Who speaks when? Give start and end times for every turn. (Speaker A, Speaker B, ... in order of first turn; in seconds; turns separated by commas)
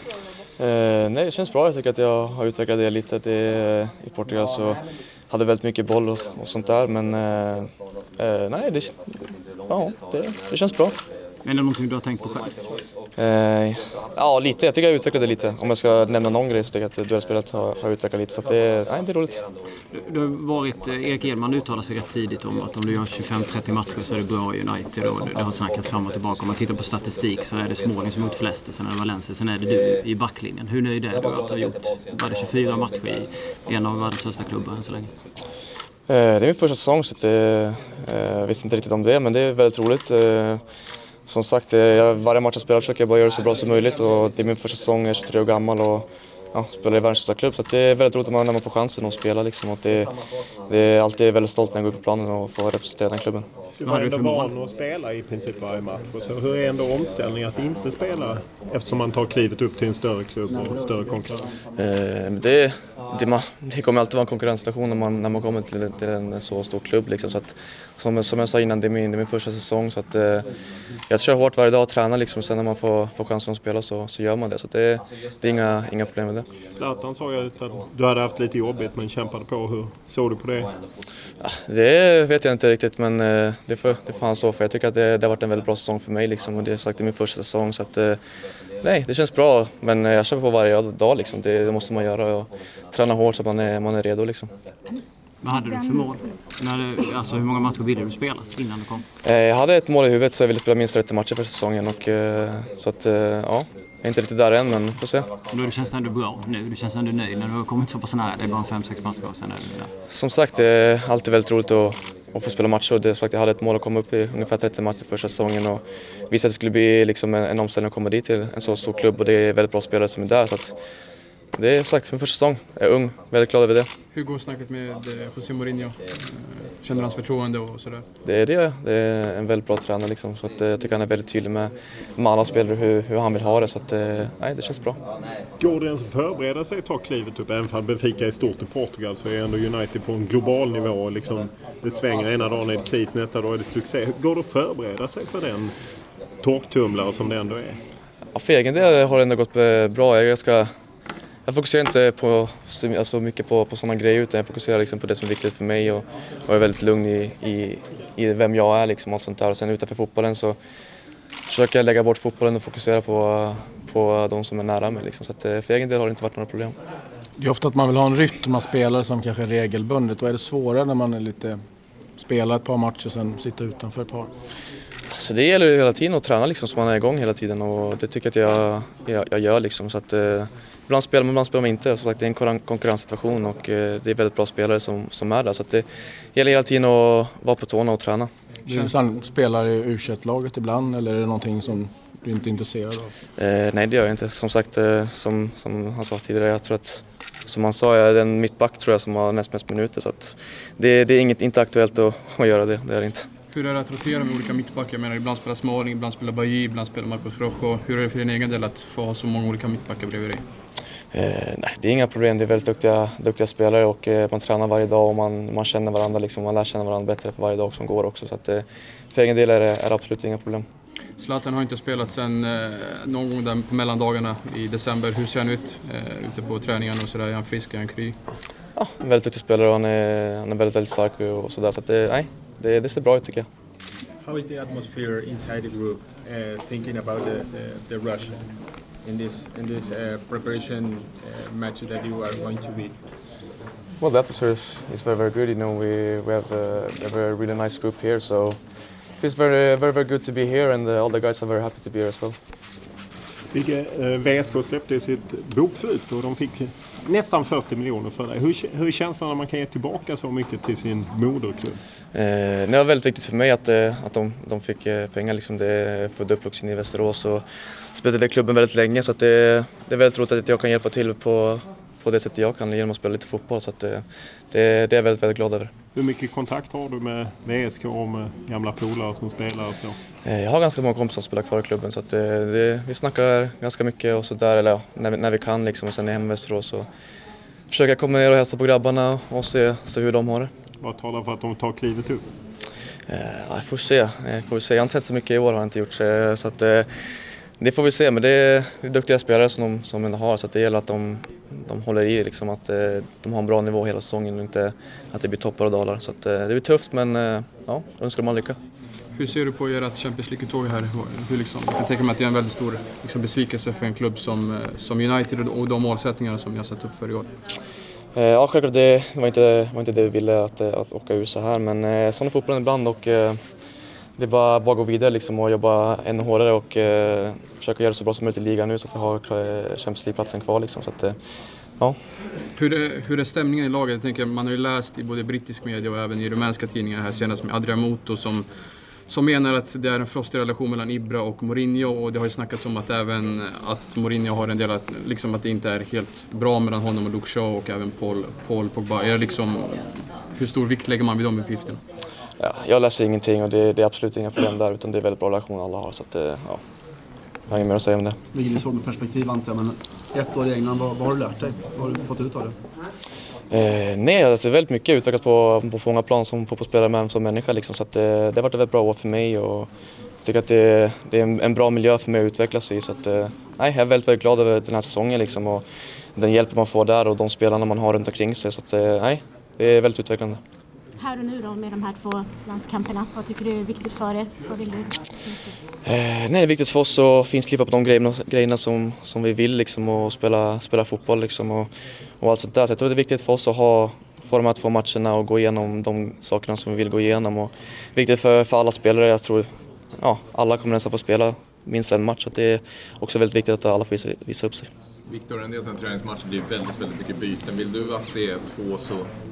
Speaker A: 0.6-10.9, Speaker B: 11.4-12.6, Speaker A: 13.2-19.4, Speaker B: 19.9-35.1, Speaker A: 36.1-40.6, Speaker A: 41.3-50.1, Speaker A: 50.7-53.5, Speaker C: 53.8-61.6, Speaker B: 53.9-54.5, Speaker A: 61.8-70.5, Speaker A: 71.1-76.5, Speaker C: 76.7-80.7, Speaker A: 81.4-88.2, Speaker A: 88.8-94.5, Speaker B: 95.4-99.0, Speaker D: 95.5-96.3, Speaker A: 99.2-105.3, Speaker B: 105.5-109.9, Speaker A: 110.1-120.8, Speaker A: 121.5-123.9, Speaker E: 124.1-128.1, Speaker A: 128.2-135.0, Speaker C: 135.6-145.7, Speaker C: 146.4-147.8, Speaker A: 148.3-150.7, Speaker A: 151.5-160.6, Speaker A: 161.5-166.8, Speaker F: 167.4-171.6, Speaker F: 172.2-174.3, Speaker A: 175.1-188.3, Speaker F: 188.7-193.1, Speaker E: 188.7-188.9, Speaker A: 193.4-203.3, Speaker E: 203.5-210.4, Speaker A: 211.1-220.7, Speaker E: 221.2-228.2, Speaker A: 228.8-233.5, Speaker G: 234.2-243.0, Speaker A: 244.0-248.6, Speaker A: 249.2-252.4, Speaker C: 253.5-261.8, Speaker A: 262.1-267.4, Speaker A: 267.9-275.7, Speaker C: 275.9-280.0, Speaker A: 280.2-286.9, Speaker A: 287.7-290.5, Speaker C: 290.8-292.2, Speaker A: 293.1-296.9, Speaker A: 297.6-308.6, Speaker E: 309.1-317.3, Speaker A: 318.1-323.4, Speaker A: 324.2-331.2, Speaker E: 332.6-338.5, Speaker E: 339.1-351.8, Speaker A: 352.4-356.6, Speaker A: 357.5-358.2, Speaker H: 358.3-362.6, Speaker A: 363.5-369.7, Speaker A: 370.2-375.6, Speaker A: 376.2-380.4, Speaker D: 381.0-385.5, Speaker A: 385.9-391.7, Speaker A: 392.2-404.7, Speaker I: 405.1-409.1